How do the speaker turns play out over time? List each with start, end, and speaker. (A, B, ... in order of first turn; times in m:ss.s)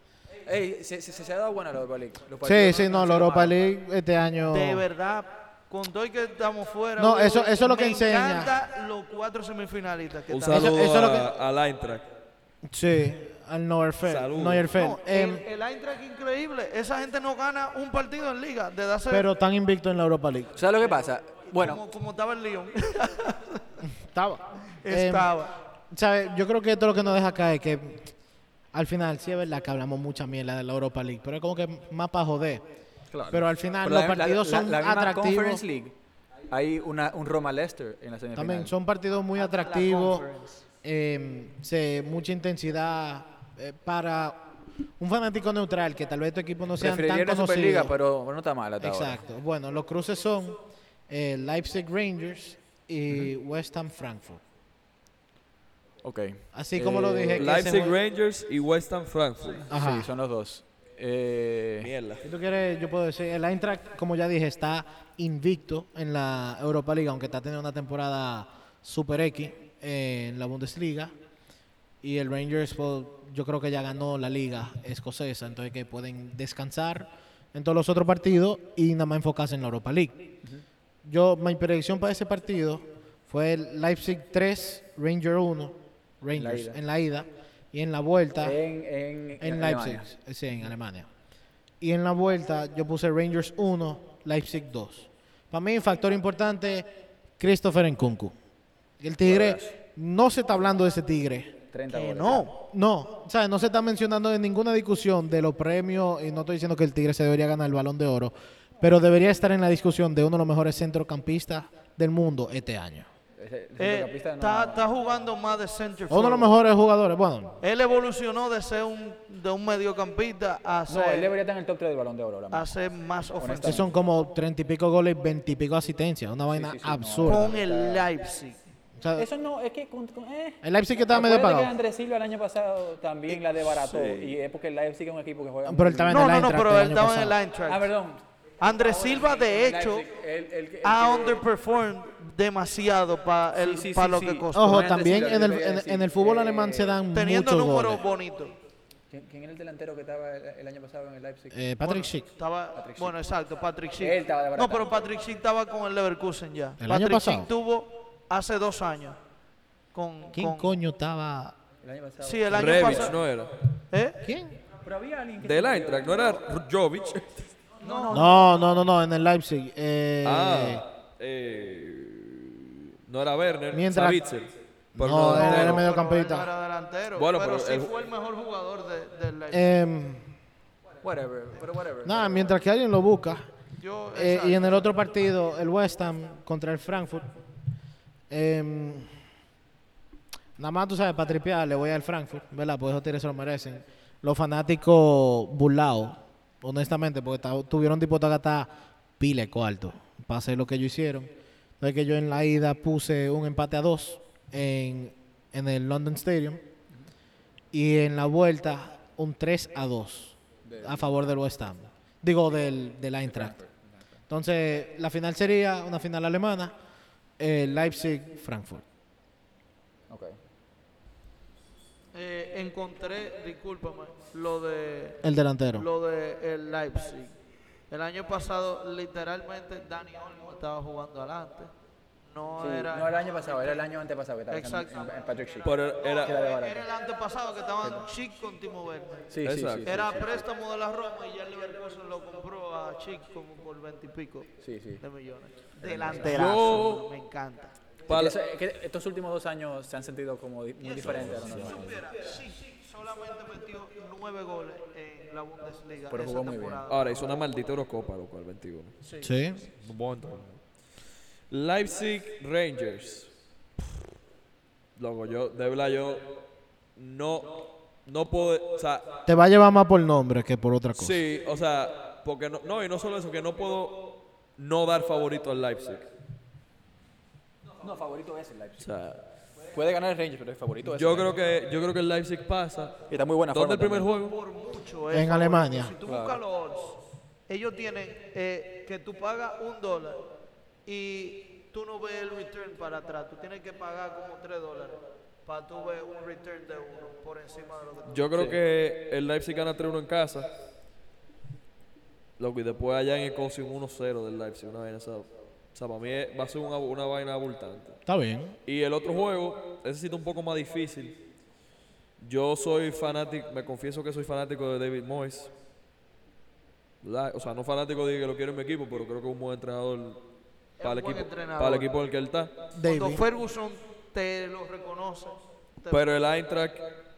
0:00.4-0:03.6 A
0:02.4-0:04.8 B
0:04.5-0:11.0 C
0:07.0-0:08.5 B
0:10.3-0:12.0 D
0:10.5-0:11.3 B
0:12.6-0:15.4 B
0:14.0-0:14.7 D
0:14.7-0:19.3 C
0:19.1-0:20.5 B
0:20.5-0:21.8 A
0:21.6-0:23.6 C
0:24.0-0:25.3 B
0:24.8-0:25.5 C
0:25.9-0:28.1 B
0:28.7-0:32.6 B
0:33.1-0:35.9 A
0:33.3-0:35.6 B
0:36.5-0:38.7 A
0:38.3-0:40.3 B
0:39.4-0:40.6 C
0:40.8-0:47.9 B
0:46.8-0:49.2 A
0:48.8-0:54.4 B
0:56.0-0:57.6 A
0:56.5-0:58.0 B
0:57.3-0:59.6 D
0:59.7-1:00.1 B
0:59.7-1:01.9 A
1:01.8-1:02.2 D
1:02.2-1:11.1 B
1:12.0-1:20.2 B
1:21.0-1:28.6 B
1:26.4-1:26.8 A
1:28.4-1:30.1 A
1:29.4-1:31.1 B
1:31.8-1:36.9 B
1:37.4-1:38.3 B
1:39.0-1:41.5 B
1:39.2-1:39.7 A
1:41.7-1:42.5 A
1:41.9-1:42.6 C
1:42.6-1:53.1 B
1:53.4-1:54.9 A
1:53.8-1:56.5 C
1:56.1-1:57.6 B
1:57.6-2:01.3 C
2:00.9-2:02.8 A
2:02.5-2:03.9 C
2:03.4-2:03.9 A
2:03.6-2:07.5 B
2:06.5-2:08.1 A
2:07.2-2:08.6 C
2:09.0-2:09.3 B
2:09.2-2:16.5 A
2:10.6-2:11.7 B
2:13.3-2:14.3 C
2:15.6-2:17.4 B
2:16.1-2:17.9 C
2:17.7-2:21.4 A
2:18.6-2:20.1 C
2:20.8-2:25.0 C
2:23.6-2:27.0 A
2:24.5-2:28.0 B
2:27.1-2:28.5 C
2:29.1-2:31.6 A
2:31.5-2:32.3 B
2:31.8-2:39.2 C
2:32.7-2:33.2 A
2:34.0-2:35.0 A
2:36.8-2:37.5 B
2:39.9-2:40.7 C
2:40.3-2:41.5 B
2:41.8-2:43.2 A
2:42.2-2:43.2 C
2:42.5-2:43.5 D
2:43.9-2:44.3 C
2:44.2-2:44.6 B
2:44.8-2:46.5 A
2:45.4-2:47.4 D
2:47.8-2:48.5 A
2:47.8-2:48.3 C
2:48.1-2:50.8 B
2:50.2-2:55.8 D
2:53.7-2:54.2 B
2:54.9-2:56.5 B
2:55.3-2:59.6 C
2:57.2-2:57.9 D
2:59.5-3:00.3 B
3:01.0-3:02.5 A
3:02.0-3:03.5 B
3:03.8-3:04.9 C
3:04.1-3:07.4 B
3:08.3-3:09.1 B
3:10.6-3:26.6 B
3:27.7-3:33.6 B
3:30.6-3:31.2 A
3:33.2-3:34.1 A
3:34.3-3:36.7 B
3:37.4-3:38.8 B
3:40.1-3:40.4 A
3:42.1-3:45.2 C
3:45.2-3:45.9 B
3:45.8-3:47.3 C
3:47.9-3:51.7 C
3:52.2-3:53.8 C
3:52.6-3:56.9 A
3:54.5-3:55.2 C
3:55.6-3:56.4 D
3:56.0-3:59.3 C
3:57.8-3:58.1 A
3:59.3-4:00.5 A
3:59.4-3:59.9 D
3:59.8-4:04.5 C
4:04.6-4:05.0 A
4:05.0-4:07.7 C
4:05.8-4:06.9 A
4:06.1-4:07.1 D
4:08.1-4:08.4 D
4:08.1-4:12.4 A
4:10.8-4:17.6 C
4:11.2-4:11.8 D
4:16.1-4:16.8 A
4:16.9-4:18.9 D
4:19.0-4:19.3 C
4:19.2-4:19.6 B
4:19.8-4:20.6 D
4:21.5-4:23.3 D
4:25.0-4:26.4 D
4:27.0-4:29.1 D
4:29.2-4:31.2 B
4:30.9-4:36.1 D
4:37.8-4:38.9 A
4:38.8-4:39.2 D
4:39.7-4:41.3 A
4:40.8-4:44.4 D
4:43.1-4:44.1 A
4:44.1-4:50.3 C
4:45.1-4:46.0 B
4:46.0-4:46.4 A
4:50.8-4:58.6 C
4:58.1-5:00.5 D
5:02.4-5:08.0 D
5:08.0-5:08.5 B
5:08.6-5:11.2 D
5:12.2-5:15.5 D
5:17.0-5:20.2 D
5:20.8-5:21.9 C
5:20.8-5:22.5 D
5:22.8-5:23.2 B
5:22.8-5:26.0 C
5:25.9-5:26.8 D